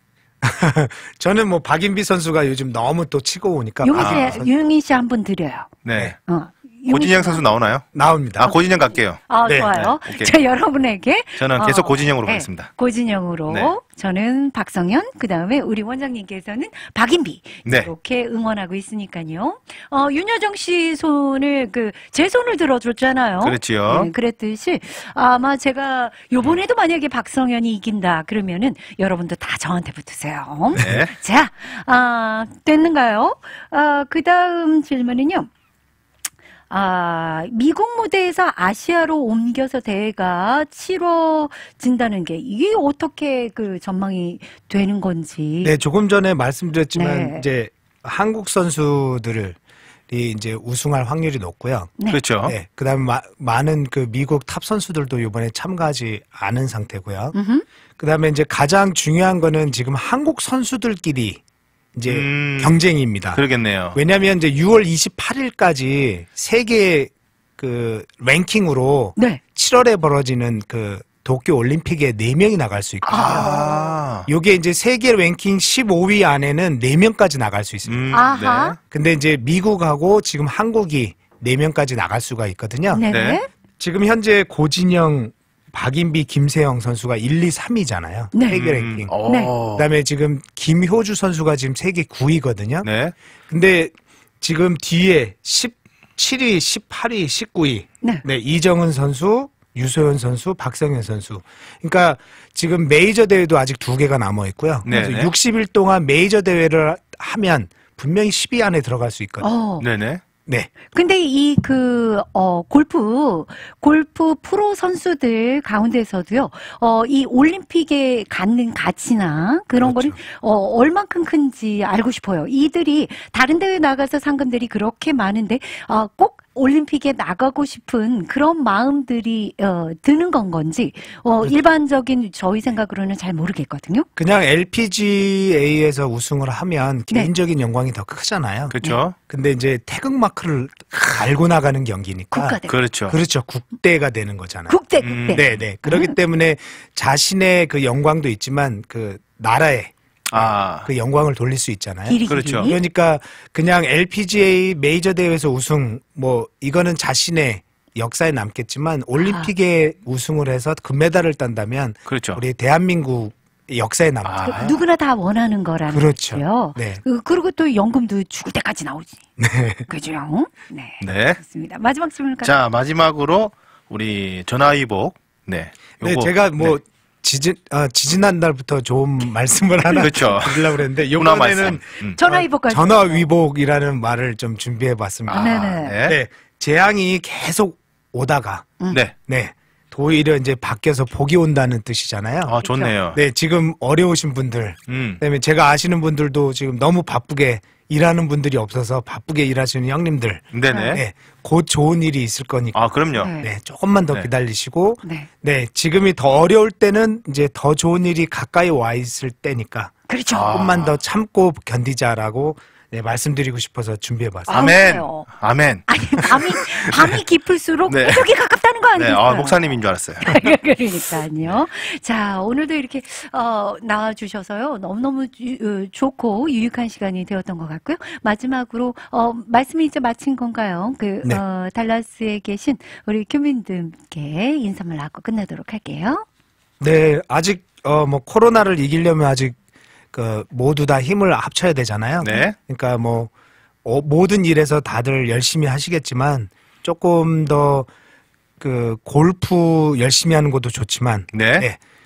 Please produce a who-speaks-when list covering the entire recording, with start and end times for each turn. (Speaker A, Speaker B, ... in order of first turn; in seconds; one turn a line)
Speaker A: 0.4-4.5
Speaker B: 3.8-7.4
Speaker C: 3.9-4.4
Speaker C: 5.8-6.2
Speaker C: 6.9-10.4
Speaker A: 7.9-8.6
Speaker B: 9.2-35.5
Speaker A: 9.4-9.7
Speaker C: 11.4-12.7
Speaker C: 13.5-13.8
Speaker C: 17.6-17.9
Speaker C: 23.4-24.1
Speaker C: 30.8-31.1
Speaker B: 36.7-45.7
Speaker A: 45.6-49.6
Speaker B: 46.9-47.4
Speaker A: 50.1-57.3
Speaker C: 52.1-52.5
Speaker B: 57.3-57.6
Speaker A: 58.0-61.4
Speaker A: 61.9-63.4
Speaker C: 62.0-62.8
Speaker C: 63.3-64.0
Speaker A: 63.9-73.7
Speaker B: 69.2-69.4
Speaker B: 73.0-73.9
Speaker C: 73.1-74.3
Speaker A: 74.2-78.1
Speaker C: 77.8-78.8
Speaker B: 78.1-78.8
Speaker A: 78.9-83.1
Speaker B: 82.9-83.5
Speaker C: 83.1-83.4
Speaker A: 83.8-89.1
Speaker B: 88.3-88.6
Speaker C: 88.5-89.8
Speaker B: 89.2-89.5
Speaker A: 89.7-92.9
Speaker C: 92.8-93.1
Speaker A: 93.5-109.5
Speaker C: 104.8-105.3
Speaker B: 109.4-109.8
Speaker C: 109.8-110.2
Speaker A: 110.5-110.7
Speaker B: 110.9-134.1
Speaker A: 119.8-120.2
Speaker A: 134.2-144.8
Speaker C: 138.7-139.1
Speaker B: 142.3-142.7
Speaker C: 142.7-143.2
Speaker B: 144.7-146.1
Speaker C: 145.0-145.6
Speaker A: 145.3-164.8
Speaker C: 150.3-150.9
Speaker B: 152.1-152.8
Speaker C: 152.3-152.7
Speaker B: 159.2-159.5
Speaker C: 162.1-162.4
Speaker C: 164.2-164.7
Speaker B: 164.4-169.2
Speaker A: 165.9-167.0
Speaker A: 169.4-169.9
Speaker B: 169.9-172.5
Speaker C: 171.0-171.4
Speaker C: 172.4-176.8
Speaker A: 176.0-188.7
Speaker C: 179.9-182.2
Speaker B: 182.2-183.2
Speaker C: 185.3-186.2
Speaker B: 185.3-185.9
Speaker A: 189.2-192.5
Speaker C: 192.4-193.2
Speaker B: 192.6-192.9
Speaker A: 193.1-202.8
Speaker C: 194.9-195.2
Speaker C: 200.5-201.0
Speaker B: 200.7-201.0
Speaker C: 202.7-203.3
Speaker B: 203.1-203.5
Speaker A: 203.4-209.9
Speaker B: 205.0-205.3
Speaker B: 210.1-210.7
Speaker C: 210.3-211.0
Speaker A: 210.5-214.7
Speaker B: 214.5-215.3
Speaker C: 214.5-217.1
Speaker B: 215.9-236.2
Speaker C: 217.9-218.3
Speaker C: 219.0-220.4
Speaker A: 236.8-239.6
Speaker A: 240.1-243.3
Speaker B: 242.2-242.5
Speaker C: 242.2-242.5
Speaker A: 243.8-247.9
Speaker A: 248.6-251.8
Speaker C: 251.3-251.7